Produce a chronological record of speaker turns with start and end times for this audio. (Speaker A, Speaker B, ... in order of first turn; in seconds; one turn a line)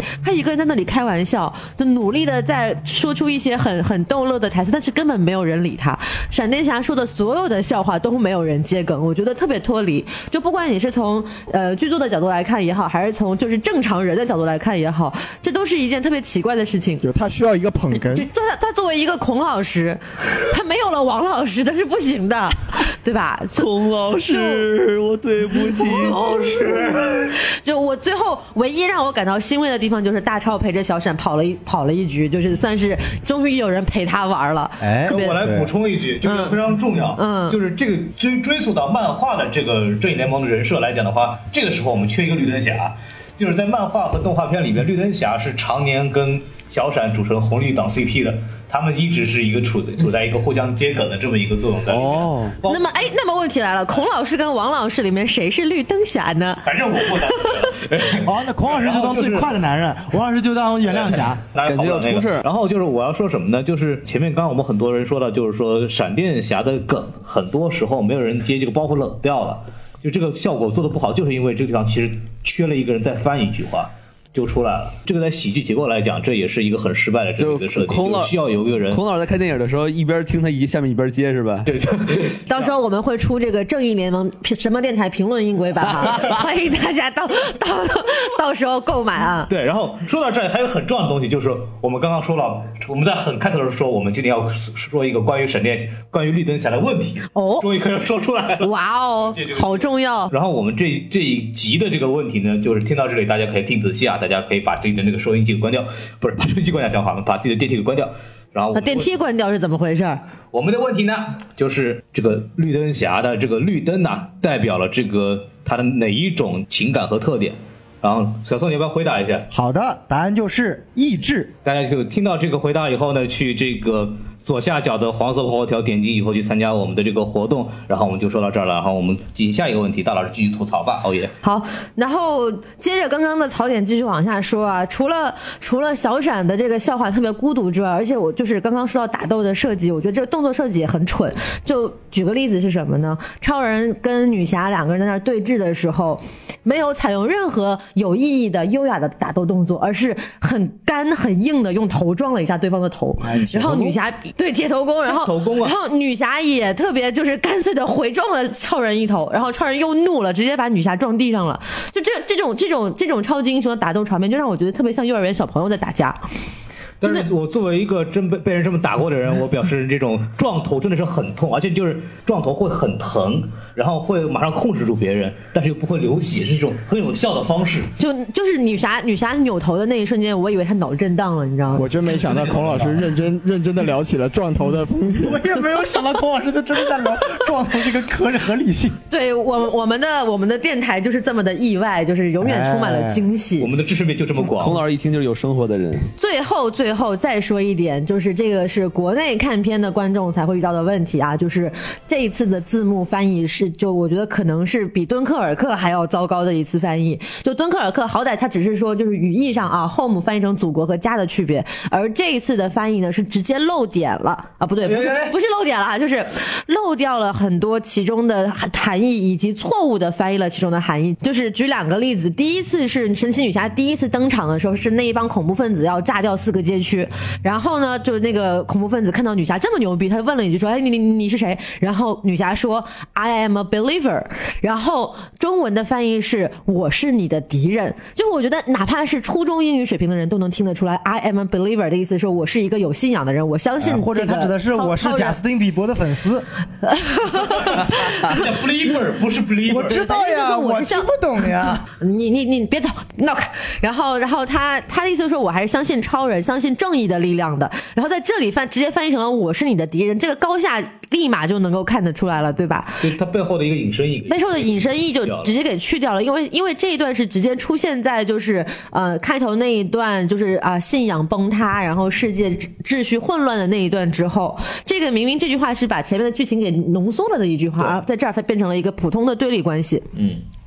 Speaker A: 0.2-17.0
Speaker B: 17.0-18.3
Speaker A: 18.0-23.7
Speaker C: 23.5-26.7
Speaker A: 24.3-24.7
Speaker A: 25.6-35.4
Speaker D: 34.8-35.7
Speaker E: 35.1-53.1
Speaker A: 36.2-36.6
Speaker A: 37.2-37.6
Speaker C: 51.9-52.5
Speaker A: 52.7-57.7
Speaker E: 56.6-59.5
Speaker D: 58.2-61.4
Speaker E: 60.9-79.0
Speaker C: 61.6-62.5
Speaker C: 77.4-78.4
Speaker C: 78.9-81.7
Speaker E: 81.7-82.8
Speaker A: 82.5-89.5
Speaker E: 89.5-98.7
Speaker A: 97.3-97.7
Speaker A: 98.6-100.3
Speaker E: 99.2-109.2
Speaker A: 108.7-110.2
Speaker E: 110.5-119.5
Speaker D: 119.5-121.5
Speaker E: 121.7-131.3
Speaker A: 131.4-166.2
Speaker D: 153.3-154.0
Speaker E: 155.0-155.8
Speaker E: 167.0-177.9
Speaker A: 178.0-182.0
Speaker B: 181.7-185.4
Speaker E: 182.0-182.8
Speaker D: 185.1-189.0
Speaker A: 189.1-193.7
Speaker D: 192.4-193.3
Speaker E: 193.6-194.8
Speaker C: 194.6-196.1
Speaker A: 196.2-245.4
Speaker E: 214.8-215.4
Speaker D: 243.8-246.5
Speaker A: 246.8-248.5
Speaker E: 247.4-250.0
Speaker D: 249.7-251.9
Speaker A: 249.9-251.5
Speaker A: 252.0-263.1
Speaker E: 263.0-265.5
Speaker A: 264.3-280.1
Speaker E: 280.2-280.4